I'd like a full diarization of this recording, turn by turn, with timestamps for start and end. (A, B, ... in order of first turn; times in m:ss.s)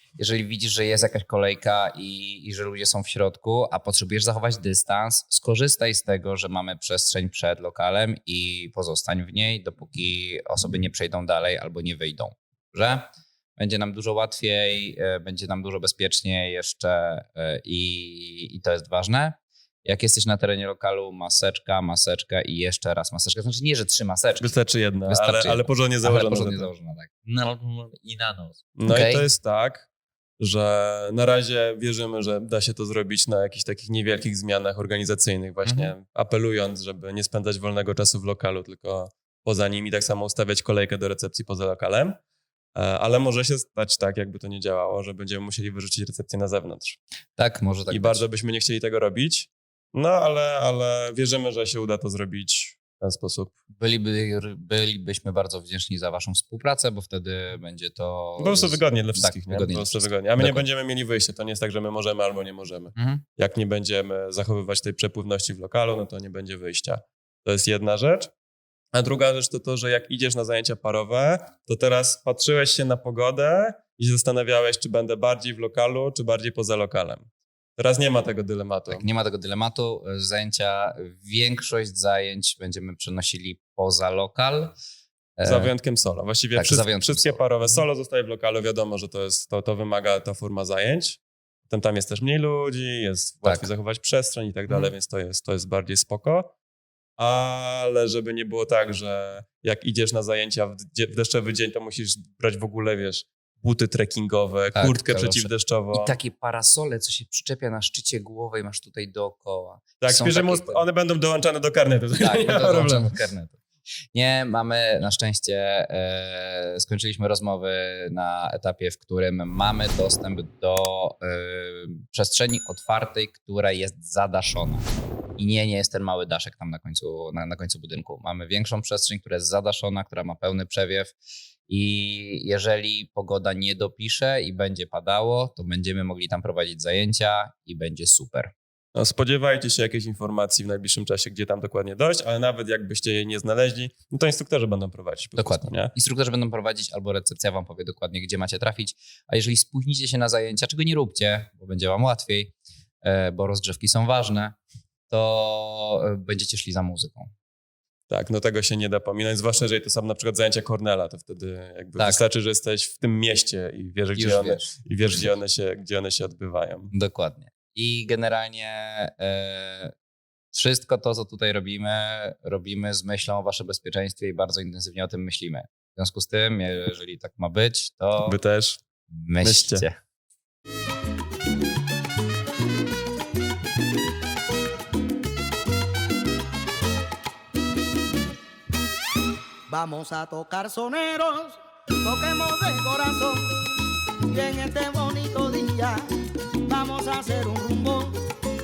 0:00.2-0:13.0 A
0:13.6-0:29.3 A
0:24.4-0:26.7 B
0:28.8-0:29.9 B
0:30.4-0:42.2 B
0:35.6-0:35.9 A
0:42.8-0:47.0 B
0:47.4-0:48.2 A
0:47.9-0:53.5 B
0:53.8-1:00.6 A
0:58.4-1:08.3 B
1:03.0-1:03.2 A
1:08.9-1:19.0 B
1:18.9-1:24.8 A
1:25.4-1:25.7 A
1:25.4-1:36.5 B
1:26.6-1:27.4 A
1:34.7-1:34.9 A
1:37.2-1:46.2 B
1:44.8-1:50.8 A
1:50.0-1:53.1 B
1:52.2-1:53.6 A
1:54.1-2:11.1 A
2:11.7-2:18.5 A
2:19.0-2:25.9 B
2:25.4-2:34.6 A
2:35.1-2:37.3 A
2:38.1-2:46.9 B
2:42.0-2:42.2 A
2:44.2-2:44.7 A
2:46.9-2:49.9 A
2:50.5-2:58.4 A
2:58.2-2:58.8 B
2:59.1-3:00.0 A
2:59.4-2:59.8 B
3:09.7-3:13.6 C
3:14.3-3:16.1 C
3:16.6-3:18.2 C